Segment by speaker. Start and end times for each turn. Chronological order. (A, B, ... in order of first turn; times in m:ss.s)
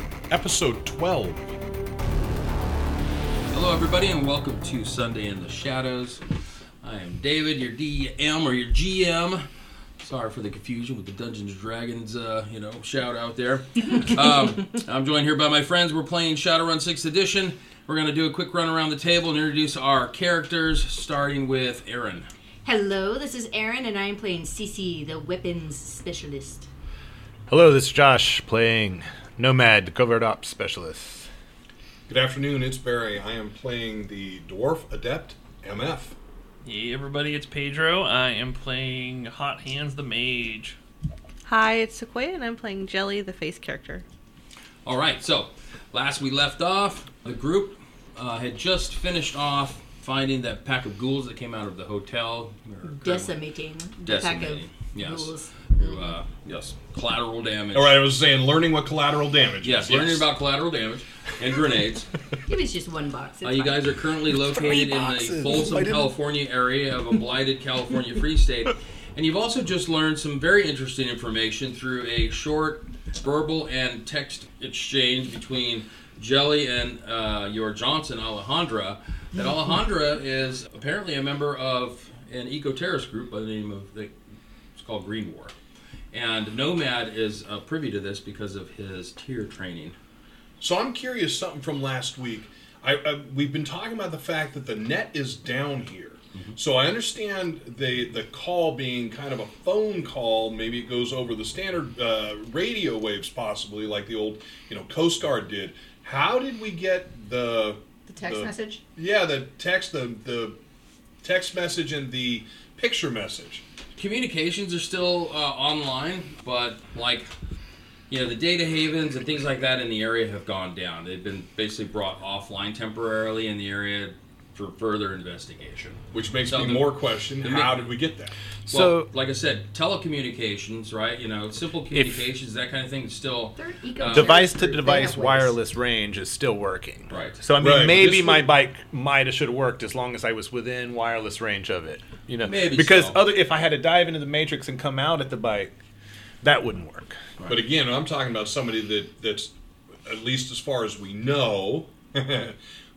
0:00.3-0:01.5 A
0:03.5-0:06.2 B
0:06.8-0:09.4 B
0:10.0-0:22.3 B
0:22.6-0:26.7 C
0:27.5-0:31.3 D
0:32.1-0:36.1 A
0:36.6-0:40.8 E
0:41.5-0:44.0 F
0:44.8-0:53.3 B
0:52.8-0:56.0 C
0:54.0-0:58.1 B
0:57.7-1:00.3 A
0:59.6-1:02.1 B
1:02.5-1:03.8 C
1:03.4-1:24.1 B
1:04.4-1:06.1 D
1:24.8-1:25.6 B
1:26.1-1:30.0 B
1:30.6-1:50.6 A
1:48.1-1:48.8 C
1:51.2-1:53.6 A
1:54.0-1:57.3 B
1:58.1-2:07.9 B
2:06.1-2:08.3 A
2:08.7-2:09.1 D
2:08.7-2:14.4 B
2:11.9-2:12.2 D
2:13.6-2:15.6 C
2:14.1-2:25.8 D
2:17.1-2:17.4 B
2:17.6-2:18.5 A
2:22.4-2:23.2 B
2:26.4-2:27.2 D
2:27.5-2:29.5 A
2:30.0-2:32.6 A